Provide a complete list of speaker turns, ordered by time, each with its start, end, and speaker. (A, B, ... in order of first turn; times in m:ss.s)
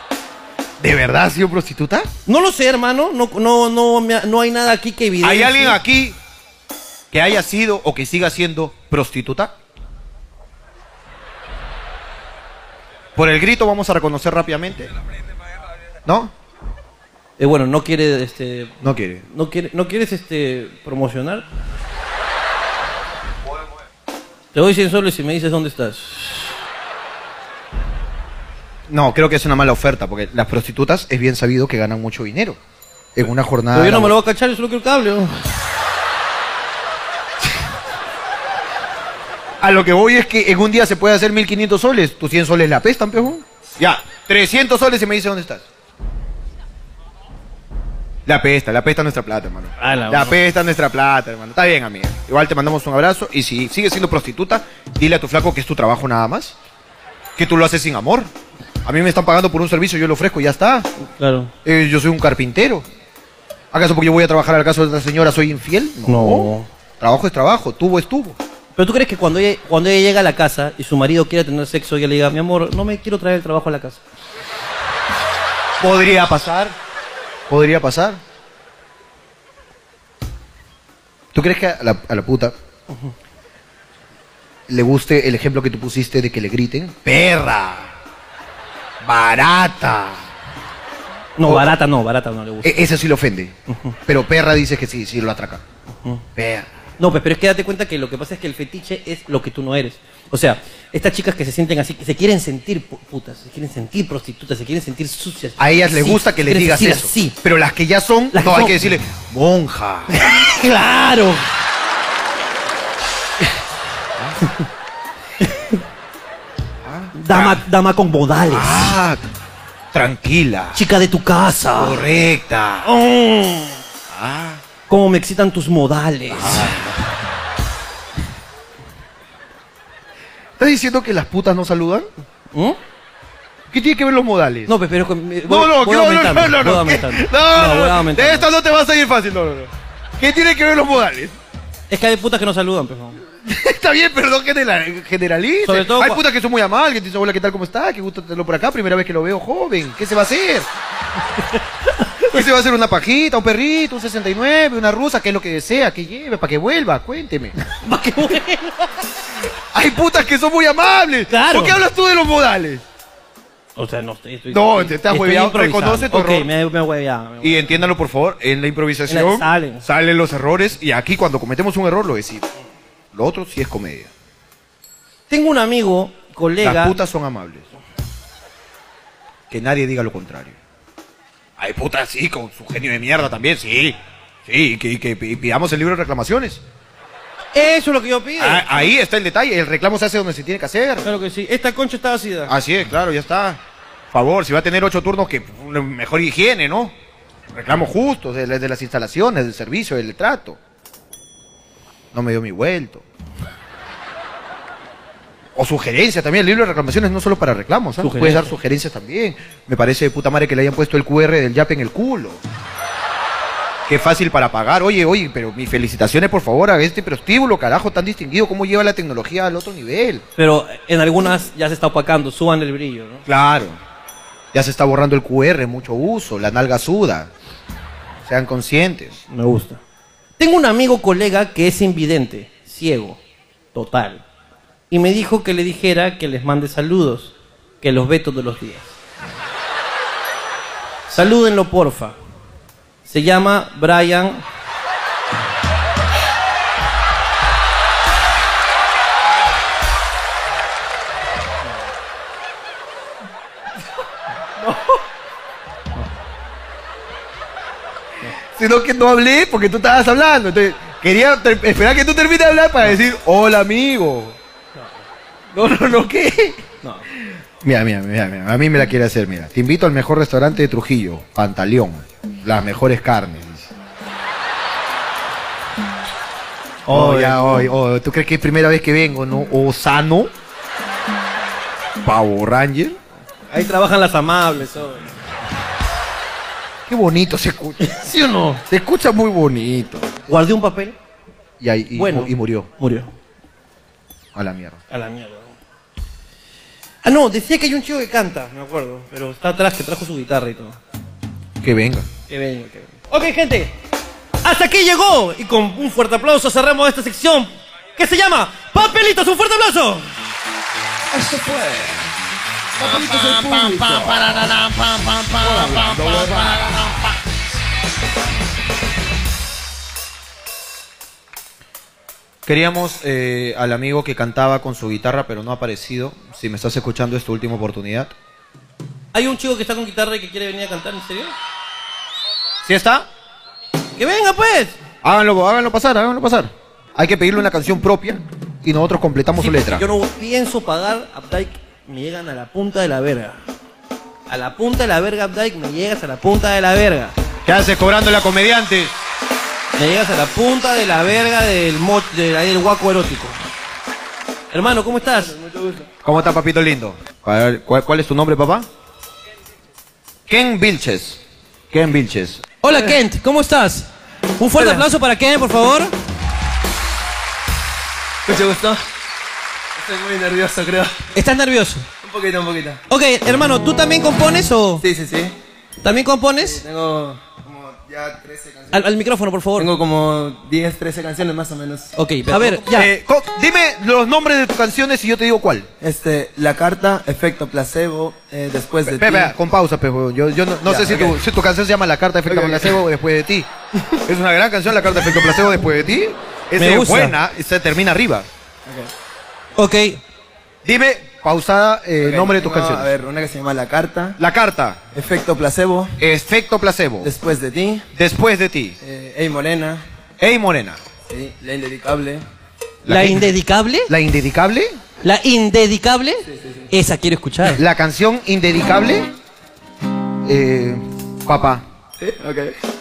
0:00.8-0:02.1 A
0:02.3-0:05.8 B
0:05.2-0:06.2 A
0:07.1-0:09.5 A
0:13.2-0:14.9 A
0:16.0-0:16.3 A
0:17.4-0:21.4 B
0:18.8-0:19.2 A
0:24.5-0:26.5 B
0:28.9-0:32.6 A
0:33.1-0:34.1 A
0:33.7-0:35.3 B
0:39.6-0:45.6 A
0:48.2-0:56.6 A
0:49.8-0:50.4 B
0:57.4-0:58.3 A
0:58.8-1:00.9 A
1:01.2-1:01.5 B
1:01.6-1:02.8 A
1:03.7-1:08.4 A
1:06.1-1:06.7 B
1:08.8-1:14.0 B
1:15.8-1:16.8 A
1:17.5-1:18.2 A
1:21.3-1:22.5 A
1:24.7-1:27.9 A
1:29.0-1:30.2 A
1:31.4-1:32.8 B
1:31.4-1:31.8 A
1:32.6-1:33.6 A
1:33.7-1:33.9 B
1:34.1-1:35.6 A
1:36.4-1:36.7 A
1:37.0-1:47.4 B
1:45.6-1:50.4 A
1:48.3-1:48.8 B
1:50.1-1:51.4 B
1:54.2-1:54.4 A
1:55.4-1:55.8 B
1:56.8-1:57.6 A
1:57.1-1:58.9 B
1:58.5-1:59.2 A
1:59.9-2:00.8 A
2:00.7-2:02.0 B
2:01.7-2:02.9 A
2:02.8-2:03.8 B
2:04.1-2:04.6 A
2:04.9-2:06.8 B
2:06.3-2:07.0 A
2:10.6-2:12.1 A
2:12.5-2:12.8 B
2:13.7-2:14.7 A
2:14.7-2:18.5 B
2:15.4-2:21.4 A
2:21.9-2:23.2 B
2:23.4-2:30.7 A
2:25.6-2:26.2 B
2:31.5-2:32.3 B
2:32.2-2:37.5 A
2:37.7-2:39.0 B
2:39.7-2:42.8 A
2:41.3-2:41.8 B
2:43.8-2:47.7 B
2:44.5-2:46.5 A
2:47.4-2:52.5 A
2:49.1-2:49.8 B
2:53.1-2:54.1 A
2:55.3-2:57.0 B
2:56.6-2:57.7 A
2:59.5-3:00.6 A
3:01.6-3:06.6 A
3:07.5-3:08.7 B
3:08.4-3:11.1 A
3:11.0-3:12.5 B
3:12.5-3:13.6 A
3:14.1-3:16.9 A
3:17.5-3:20.6 A
3:22.1-3:23.0 A
3:25.6-3:32.4 A
3:28.0-3:28.5 B
3:33.9-3:40.2 A
3:40.4-3:43.2 B
3:43.3-3:43.8 A
3:44.5-3:47.3 A
3:48.2-3:49.2 A
3:49.3-3:49.8 B
3:50.4-3:53.2 B
3:53.7-3:54.2 B
3:54.9-3:58.9 B
4:01.1-4:02.2 B
4:03.0-4:04.4 B
4:18.6-4:24.4 A
4:25.5-4:26.6 A
4:27.6-4:33.7 A
4:36.8-4:37.7 B
4:36.9-4:40.3 A
4:42.0-4:43.0 A
4:43.5-4:44.9 B
4:44.5-4:45.0 C
4:46.9-4:47.8 A
4:47.8-4:48.6 B
4:48.7-4:50.1 A
4:50.3-4:51.0 B
4:51.6-4:52.7 A
4:51.9-4:53.1 B
4:54.3-4:54.8 A
4:54.9-4:55.6 B
4:57.0-5:00.8 B
5:01.6-5:02.1 A
5:02.3-5:03.7 B
5:04.4-5:10.1 B
5:11.1-5:12.0 C
5:12.8-5:17.2 A
5:12.8-5:14.1 C
5:15.6-5:16.3 C
5:22.4-5:28.1 A
5:29.1-5:31.3 B
5:32.6-5:33.1 A
5:34.0-5:34.8 B
5:35.0-5:39.8 A
5:39.4-5:43.4 B
5:44.3-5:47.1 B
5:47.4-5:49.0 A
5:49.8-5:53.4 B
5:54.5-5:55.4 B
5:55.2-5:55.9 C
5:56.0-5:58.7 A
6:00.3-6:02.4 A
6:02.6-6:05.9 B
6:04.6-6:04.8 C
6:08.2-6:08.8 C
6:09.8-6:11.0 C
6:11.1-6:11.9 B
6:12.0-6:12.8 C
6:12.9-6:14.8 B
6:14.8-6:15.4 C
6:15.8-6:16.6 B
6:16.4-6:18.9 C
6:18.7-6:19.7 B
6:19.6-6:21.9 C
6:21.9-6:22.9 B
6:22.3-6:25.7 A
6:25.8-6:29.3 C
6:28.8-6:33.5 A
6:30.6-6:31.2 C
6:32.3-6:32.8 C
6:34.0-6:38.3 A
6:36.6-6:37.2 B
6:38.6-6:38.9 C
6:39.6-6:40.0 B
6:40.6-6:42.9 A
6:42.0-6:44.2 C
6:44.2-6:44.8 A
6:44.9-6:46.0 C
6:46.0-6:47.1 A
6:47.0-6:47.8 C
6:47.9-6:48.8 A
6:48.8-6:49.8 C
6:50.2-6:50.8 A
6:51.0-6:52.2 C
6:52.8-6:53.3 A
6:52.9-6:53.9 B
6:53.9-6:54.8 A
6:55.0-6:57.6 B
6:56.3-6:56.6 C
6:57.4-6:59.1 A
7:00.2-7:01.6 A
7:02.0-7:02.5 C